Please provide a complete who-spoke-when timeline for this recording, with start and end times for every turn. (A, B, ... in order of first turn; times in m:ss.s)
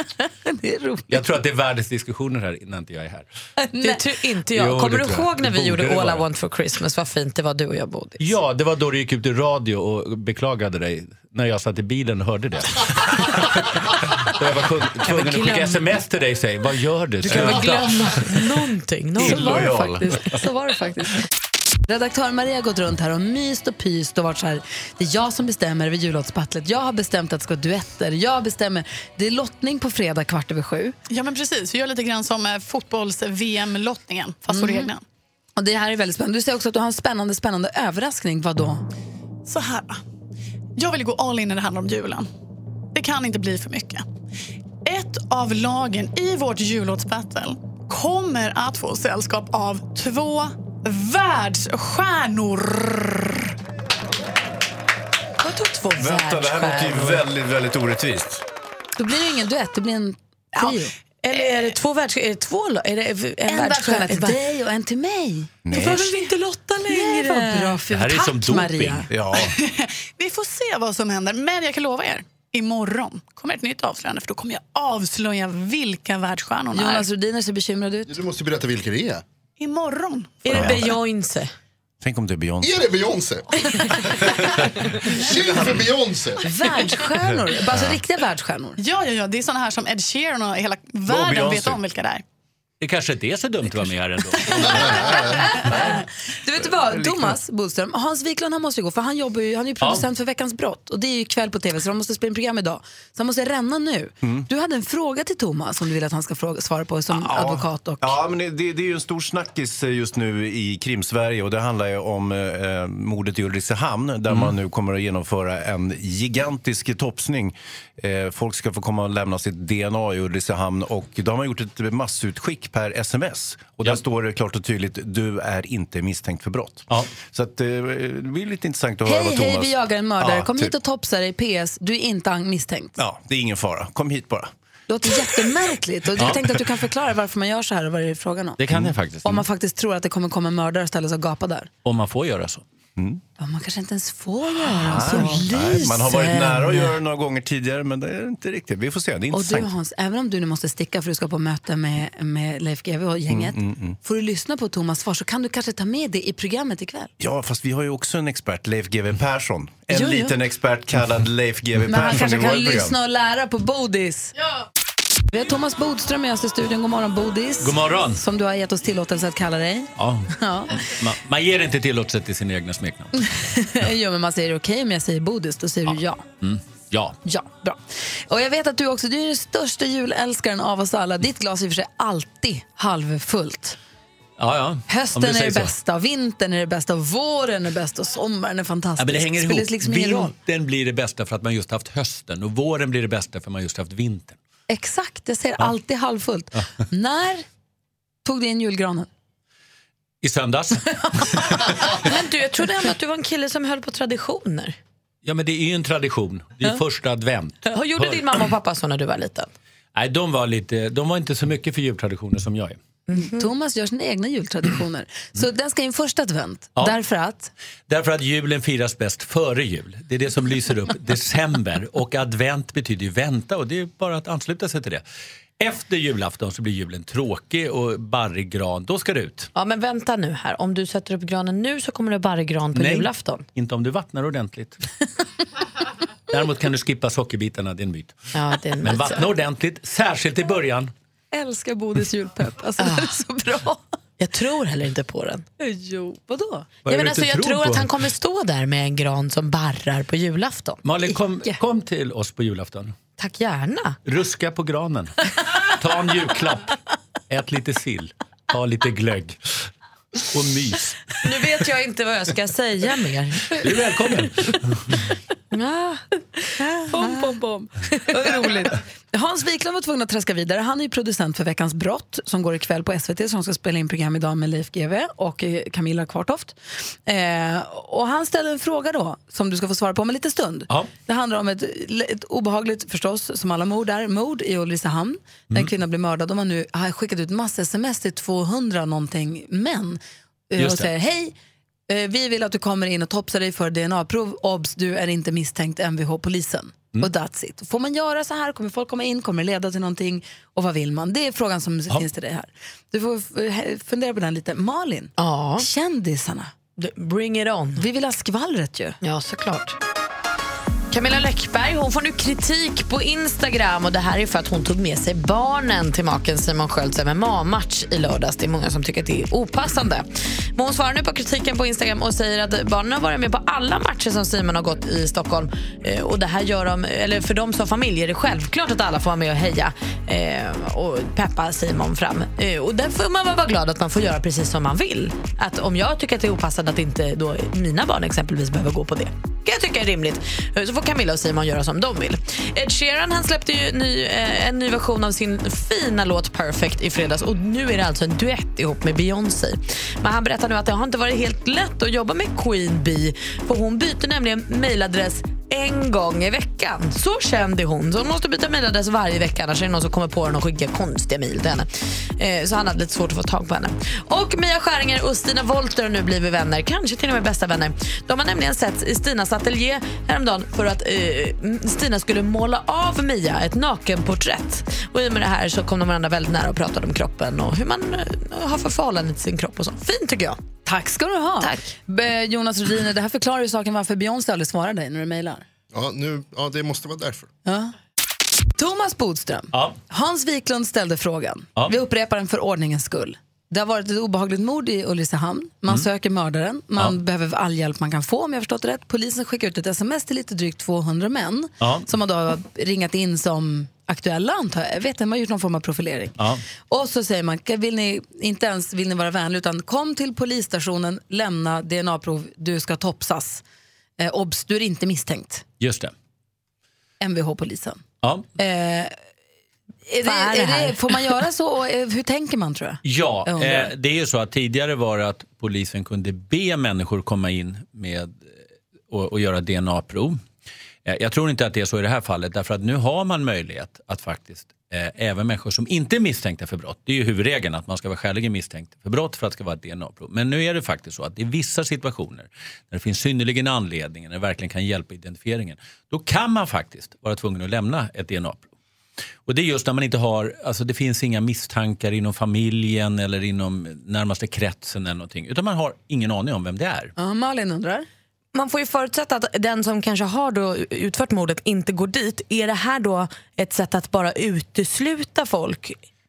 0:00.5-0:01.1 A
0:01.1-0:03.3 B
0:03.8-0:08.4 C
0:04.5-0:06.2 B
0:08.2-0:18.2 B
0:15.0-0:15.8 C
0:17.2-0:20.0 C
0:17.3-0:17.6 D
0:19.2-0:20.2 D
0:19.3-0:19.7 A
0:20.4-0:21.0 A
0:21.9-0:31.0 A
0:31.1-0:35.0 E
0:34.5-0:34.9 A
0:35.6-0:38.8 A
0:39.4-0:40.0 E
0:40.8-0:42.3 E
0:43.0-0:44.0 E
0:44.9-0:53.4 E
0:55.4-0:57.2 C
0:56.0-0:58.4 D
0:59.0-1:00.9 A
1:01.2-1:04.4 C
1:03.5-1:05.5 A
1:05.6-1:06.2 D
1:05.7-1:07.8 C
1:06.9-1:09.1 A
1:07.9-1:09.1 B
1:09.1-1:09.6 D
1:09.4-1:17.1 E
1:16.7-1:18.2 A
1:18.1-1:19.2 F
1:19.6-1:20.4 E
1:20.4-1:21.5 C
1:20.5-1:20.9 D
1:22.0-1:22.7 D
1:22.6-1:23.9 F
1:24.2-1:25.8 D
1:25.2-1:26.4 F
1:26.4-1:28.8 A
1:28.8-1:32.2 E
1:31.1-1:31.8 D
1:32.8-1:35.4 B
1:35.4-1:48.2 A
1:36.9-1:37.3 D
1:39.8-1:40.1 B
1:47.1-2:10.7 D
2:09.0-2:13.0 A
2:13.0-2:14.5 D
2:14.9-2:18.6 A
2:18.6-2:19.5 B
2:18.7-2:19.0 D
2:19.2-2:21.7 A
2:21.8-2:22.6 B
2:23.4-2:26.9 A
2:24.8-2:29.7 D
2:29.3-2:37.1 A
2:33.3-2:34.0 D
2:37.2-2:43.0 D
2:39.9-2:40.4 A
2:41.9-2:44.3 A
2:45.3-2:50.8 A
2:47.6-2:48.2 B
2:50.0-2:53.2 B
2:53.2-2:56.2 A
2:55.9-2:57.2 B
2:57.2-3:03.8 A
3:04.4-3:05.7 B
3:04.9-3:10.4 A
3:09.0-3:14.4 B
3:14.7-3:17.4 A
3:18.2-3:19.1 A
3:20.2-3:22.0 B
3:22.0-3:24.8 C
3:25.2-3:28.4 B
3:27.7-3:29.5 C
3:30.0-3:32.8 B
3:33.1-3:33.5 C
3:33.2-3:37.5 A
3:37.9-3:45.0 B
3:45.6-3:49.5 B
3:49.6-3:53.4 C
3:52.7-3:54.8 B
3:56.3-3:58.3 B
3:58.3-3:59.3 C
3:58.8-4:00.9 B
4:01.3-4:03.8 A
4:02.8-4:03.2 C
4:04.2-4:05.4 C
4:05.6-4:06.7 A
4:06.8-4:07.9 B
4:06.9-4:10.8 C
4:10.8-4:13.0 B
4:13.2-4:14.0 C
4:14.1-4:16.7 B
4:17.3-4:19.4 B
4:20.2-4:21.1 B
4:21.2-4:23.6 C
4:23.5-4:24.8 B
4:25.5-4:26.0 C
4:26.8-4:27.3 C
4:26.9-4:50.0 A
4:28.1-4:28.5 C
4:50.5-4:51.3 A
4:50.6-4:50.9 B
4:51.9-5:06.5 A
5:05.2-5:05.7 C
5:06.8-5:07.8 C
5:07.8-5:09.0 A
5:09.0-5:09.8 C
5:10.9-6:20.4 C
6:20.7-6:25.4 A
6:25.7-6:27.3 F
6:27.4-6:27.7 A
6:28.6-6:53.4 A
6:29.5-6:29.8 B
6:41.6-6:41.9 B
6:54.0-6:55.4 A
6:55.6-6:55.9 B
6:57.0-6:57.8 A
6:58.4-6:58.9 A
6:59.9-7:03.7 A
7:00.0-7:00.8 C
7:02.8-7:08.4 B
7:08.9-7:10.2 B
7:10.8-7:28.5 B
7:29.3-7:36.9 B
7:37.0-7:37.9 A
7:38.3-7:45.8 C